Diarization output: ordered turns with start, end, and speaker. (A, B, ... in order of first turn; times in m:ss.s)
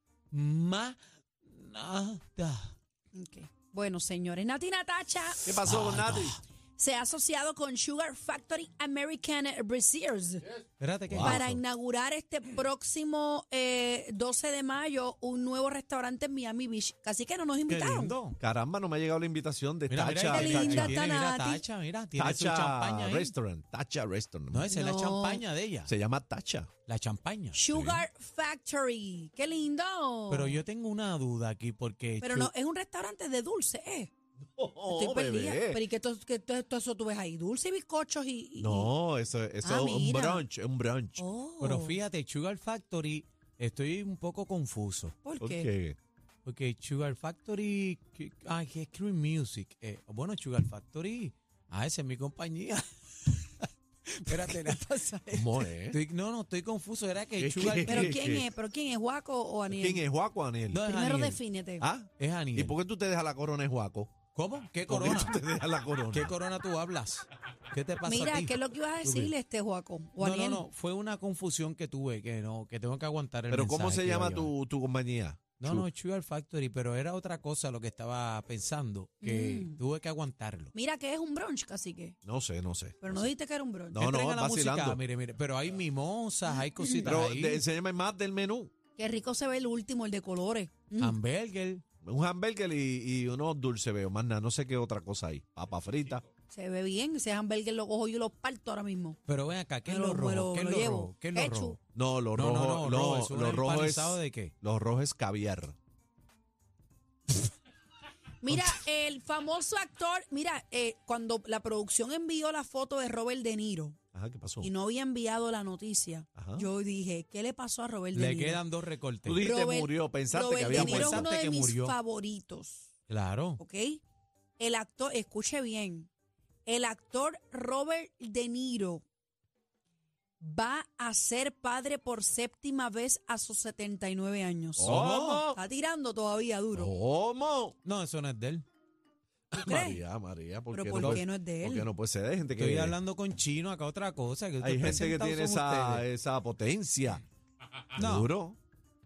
0:00.3-0:02.7 A
0:03.1-0:05.5 B
0:05.4-0:06.4 C
0:05.6-0:06.4 A
0:06.8-0:10.4 B
0:10.8-0:11.6 A
0:11.1-0:11.4 C
0:11.2-0:18.2 B
0:17.7-0:18.4 A
0:18.4-0:20.9 C
0:19.9-0:23.3 A
0:20.3-0:21.6 B
0:22.2-0:24.6 C
0:24.5-0:25.9 A
0:24.7-0:25.4 B
0:25.8-0:26.7 C
0:26.9-0:27.6 A
0:27.5-0:30.6 B
0:27.7-0:28.0 C
0:30.3-0:32.5 A
0:32.2-0:34.1 B
0:34.6-0:35.8 C
0:34.9-0:38.9 B
0:38.6-0:41.2 C
0:39.6-0:40.4 B
0:41.2-0:42.0 B
0:41.6-0:45.2 A
0:45.2-0:45.7 B
0:45.4-0:46.0 C
0:46.4-0:58.2 A
0:55.3-0:56.0 C
0:57.4-0:58.4 C
0:57.8-1:00.0 B
0:59.7-1:00.8 C
1:00.7-1:01.4 A
1:00.8-1:01.8 B
1:01.8-1:04.2 C
1:02.2-1:02.7 A
1:04.3-1:05.4 A
1:04.8-1:06.3 C
1:06.1-1:09.3 A
1:08.0-1:10.6 B
1:10.2-1:14.5 A
1:13.5-1:15.9 C
1:15.6-1:20.7 A
1:19.2-1:19.8 B
1:20.7-1:22.2 B
1:22.2-1:23.0 C
1:23.0-1:24.0 B
1:23.9-1:25.0 C
1:24.0-1:27.6 A
1:26.8-1:27.1 B
1:27.0-1:28.7 C
1:29.0-1:31.2 B
1:31.0-1:31.8 A
1:32.0-1:36.2 C
1:36.5-1:39.2 B
1:39.3-1:41.8 A
1:39.8-1:41.8 B
1:41.9-1:45.7 C
1:42.3-1:44.5 A
1:48.4-1:54.0 B
1:54.1-1:54.7 C
1:54.6-1:58.6 B
1:56.3-1:56.6 C
1:58.1-1:59.4 A
1:59.2-2:01.3 C
1:59.4-2:02.9 B
2:00.7-2:02.0 A
2:03.1-2:03.6 A
2:03.6-2:04.0 B
2:04.6-2:06.1 B
2:06.6-2:09.0 B
2:10.4-2:16.9 B
2:14.8-2:15.6 C
2:14.8-2:15.5 A
2:16.7-2:17.8 C
2:17.8-2:18.6 A
2:19.5-2:23.0 C
2:19.5-2:20.0 B
2:20.7-2:21.9 B
2:21.0-2:21.2 A
2:22.6-2:26.0 A
2:24.6-2:27.2 C
2:27.9-2:28.6 C
2:28.0-2:28.3 A